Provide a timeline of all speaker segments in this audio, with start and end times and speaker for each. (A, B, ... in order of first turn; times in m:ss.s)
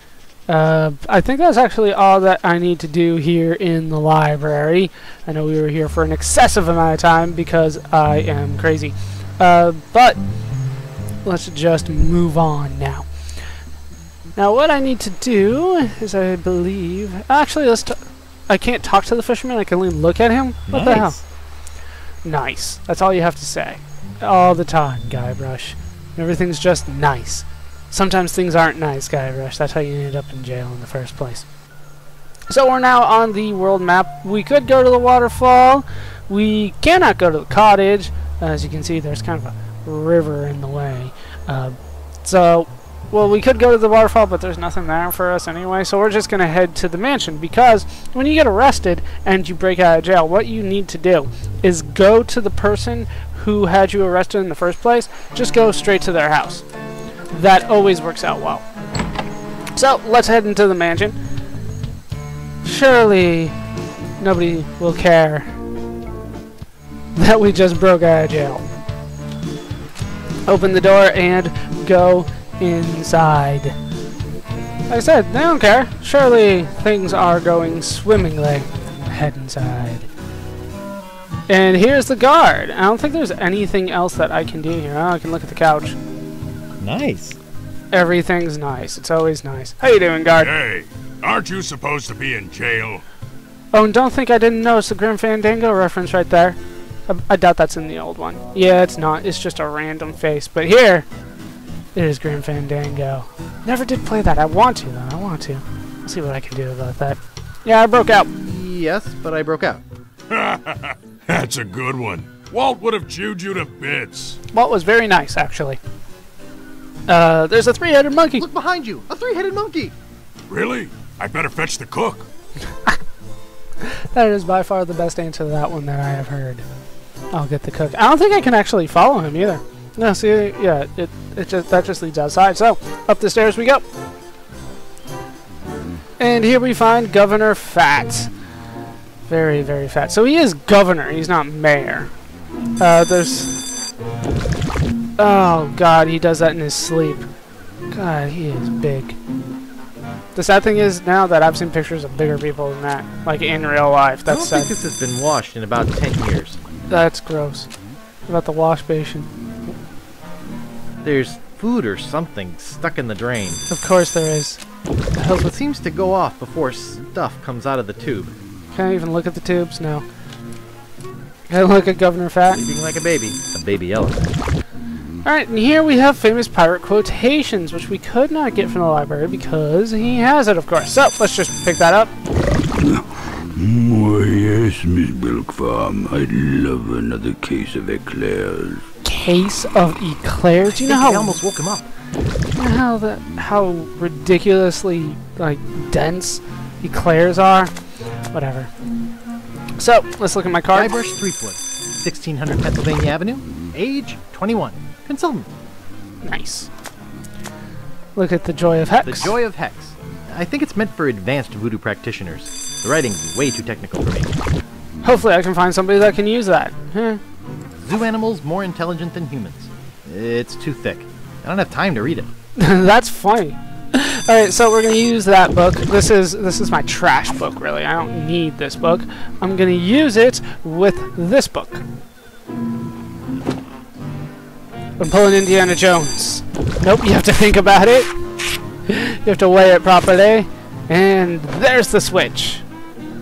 0:00.5-0:10.2 A
0:11.2-0:13.1 A
0:14.4-0:21.2 A
0:20.7-0:21.2 B
0:22.2-0:31.4 A
0:32.5-0:56.6 A
0:57.3-0:58.6 A
0:59.7-1:01.2 A
1:02.6-1:03.6 A
1:04.2-1:05.5 A
1:07.1-1:08.6 A
1:10.4-1:13.7 A
1:14.9-1:20.1 A
1:21.5-1:26.0 A
1:26.8-1:27.4 B
1:27.9-1:30.5 A
1:30.4-1:33.0 C
1:33.7-1:41.0 A
1:41.9-1:48.3 A
1:48.3-1:49.8 B
1:50.3-1:54.4 C
1:54.5-1:55.8 A
1:57.1-1:58.4 A
1:58.4-1:59.9 B
2:00.5-2:02.3 C
2:03.8-2:06.6 A
2:07.3-2:13.8 A
2:16.2-2:18.3 A
2:19.3-2:22.1 A
2:22.8-2:23.6 A
2:25.2-2:27.2 A
2:27.9-2:29.2 A
2:30.3-2:34.7 A
2:34.3-2:36.6 B
2:36.9-2:37.7 A
2:38.3-2:39.3 A
2:41.0-2:43.6 B
2:43.7-2:44.6 A
2:45.2-2:48.4 B
2:48.7-2:50.0 A
2:51.5-2:52.6 A
2:52.5-2:54.4 B
2:55.2-3:02.1 A
3:02.7-3:03.0 D
3:03.5-3:08.8 D
3:09.0-3:11.4 A
3:10.7-3:11.9 B
3:12.6-3:17.7 A
3:18.3-3:18.7 A
3:19.8-3:21.0 A
3:20.7-3:25.5 B
3:26.2-3:26.7 A
3:28.1-3:29.4 A
3:29.0-3:34.4 B
3:35.0-3:37.2 A
3:37.8-3:42.3 B
3:42.6-3:51.8 A
3:55.0-3:58.1 A
3:58.9-4:02.6 A